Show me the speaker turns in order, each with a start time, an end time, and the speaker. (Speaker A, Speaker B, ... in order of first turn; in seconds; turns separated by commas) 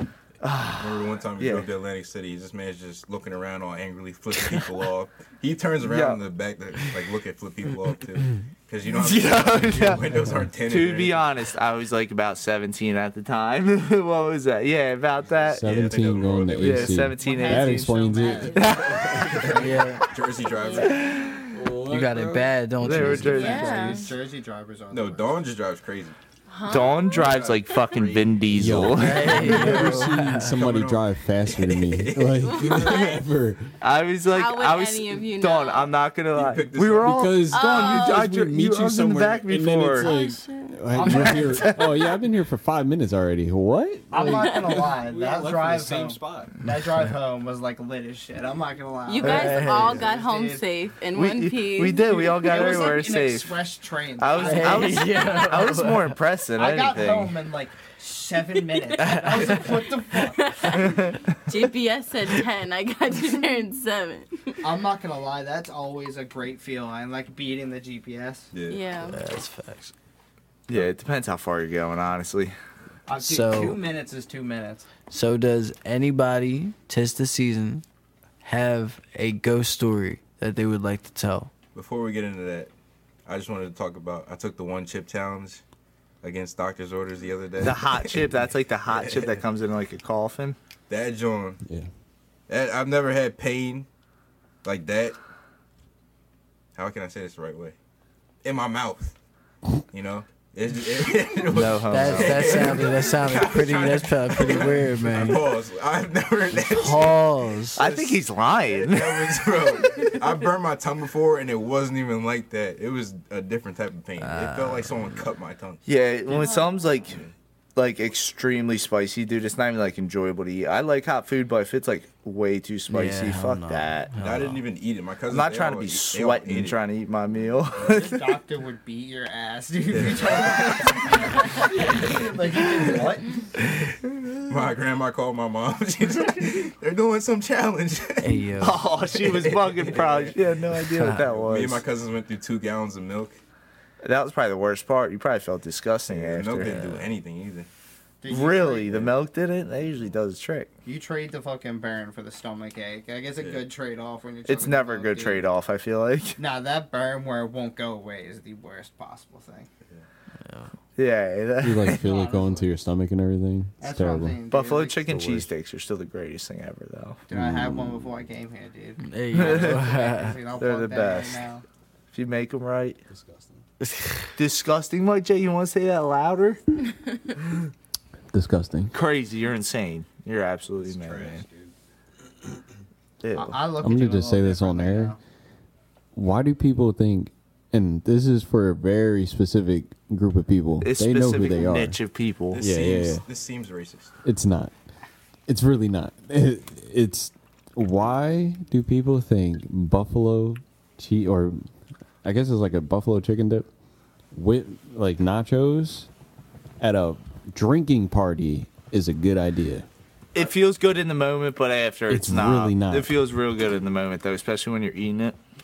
Speaker A: 0.4-1.7, Speaker B: 0.8-11.3, Speaker A: 5.8-6.2, Speaker A: 8.8-10.0, Speaker C: 9.9-10.5, Speaker A: 10.7-16.0, Speaker C: 15.4-19.6, Speaker B: 15.6-17.1, Speaker A: 16.6-19.5, Speaker D: 17.1-20.0, Speaker E: 18.2-18.8, Speaker B: 19.4-21.0, Speaker F: 19.5-20.1, Speaker E: 20.4-21.0, Speaker A: 20.8-21.5, Speaker C: 21.5-23.5, Speaker F: 21.9-23.6, Speaker A: 22.8-24.0, Speaker D: 23.0-25.4, Speaker E: 23.2-24.1, Speaker B: 24.9-26.1, Speaker E: 26.5-27.8, Speaker A: 26.7-29.7, Speaker B: 27.1-32.9, Speaker C: 28.5-33.7, Speaker F: 28.9-30.5, Speaker E: 32.4-33.2, Speaker A: 33.8-40.1, Speaker E: 34.2-35.9, Speaker B: 36.3-37.4, Speaker C: 37.0-46.6, Speaker E: 37.5-38.3, Speaker E: 40.0-41.9, Speaker D: 40.9-41.9, Speaker D: 44.1-50.6, Speaker E: 44.2-44.7, Speaker E: 49.0-52.8, Speaker A: 49.2-49.9, Speaker F: 49.3-49.7, Speaker A: 51.1-57.4, Speaker D: 52.0-55.1, Speaker F: 54.3-56.2, Speaker D: 56.5-61.0, Speaker F: 59.0-59.6, Speaker E: 59.0-64.6, Speaker A: 60.7-61.2, Speaker D: 64.6-68.5, Speaker B: 68.5-68.9, Speaker E: 68.6-69.2, Speaker F: 69.1-69.9, Speaker A: 70.7-72.5, Speaker D: 73.1-74.9, Speaker F: 73.2-73.8, Speaker F: 75.1-77.8, Speaker F: 78.4-81.5, Speaker B: 81.7-82.7, Speaker B: 83.2-85.6, Speaker B: 86.2-88.3, Speaker A: 87.6-90.6, Speaker B: 88.9-89.4, Speaker B: 90.9-91.6, Speaker B: 92.5-93.9, Speaker B: 94.6-95.2, Speaker B: 96.7-97.8, Speaker B: 98.4-99.1, Speaker B: 99.9-115.8, Speaker A: 101.5-103.0, Speaker F: 101.9-105.5, Speaker F: 106.5-107.8, Speaker A: 107.8-109.5, Speaker F: 114.2-115.3, Speaker A: 115.8-117.2, Speaker E: 116.3-117.0, Speaker A: 117.8-124.1, Speaker F: 122.9-124.6, Speaker B: 124.2-126.8, Speaker A: 125.3-128.3, Speaker D: 127.8-133.4, Speaker B: 129.9-131.9, Speaker B: 134.5-140.3, Speaker F: 138.2-138.8, Speaker A: 138.6-141.8, Speaker F: 140.9-141.2, Speaker B: 141.2-143.4, Speaker A: 144.0-147.1, Speaker B: 146.1-147.7, Speaker D: 148.2-149.1, Speaker A: 148.3-150.7, Speaker D: 150.8-155.4, Speaker A: 154.4-156.4, Speaker D: 156.4-159.7, Speaker F: 160.4-160.7, Speaker A: 160.9-162.0, Speaker C: 161.6-164.4, Speaker D: 161.8-162.7, Speaker D: 163.8-165.1, Speaker A: 164.5-167.2, Speaker C: 165.1-165.5, Speaker D: 167.3-171.6, Speaker C: 167.3-168.1, Speaker F: 169.0-170.4, Speaker A: 169.3-169.8, Speaker A: 170.6-171.4, Speaker A: 172.1-173.0, Speaker C: 173.1-173.6, Speaker F: 173.8-174.3, Speaker A: 174.3-176.6, Speaker C: 178.3-178.9, Speaker A: 178.9-181.4, Speaker B: 181.1-181.4, Speaker A: 183.2-183.6, Speaker D: 183.3-185.2, Speaker C: 183.8-185.2, Speaker C: 186.1-192.0, Speaker A: 190.8-192.6, Speaker B: 192.5-194.1, Speaker C: 192.6-193.2, Speaker C: 194.2-194.7, Speaker C: 195.5-201.7, Speaker C: 202.2-203.7, Speaker C: 204.3-206.1, Speaker C: 206.8-209.9, Speaker A: 210.3-215.4, Speaker C: 212.1-213.2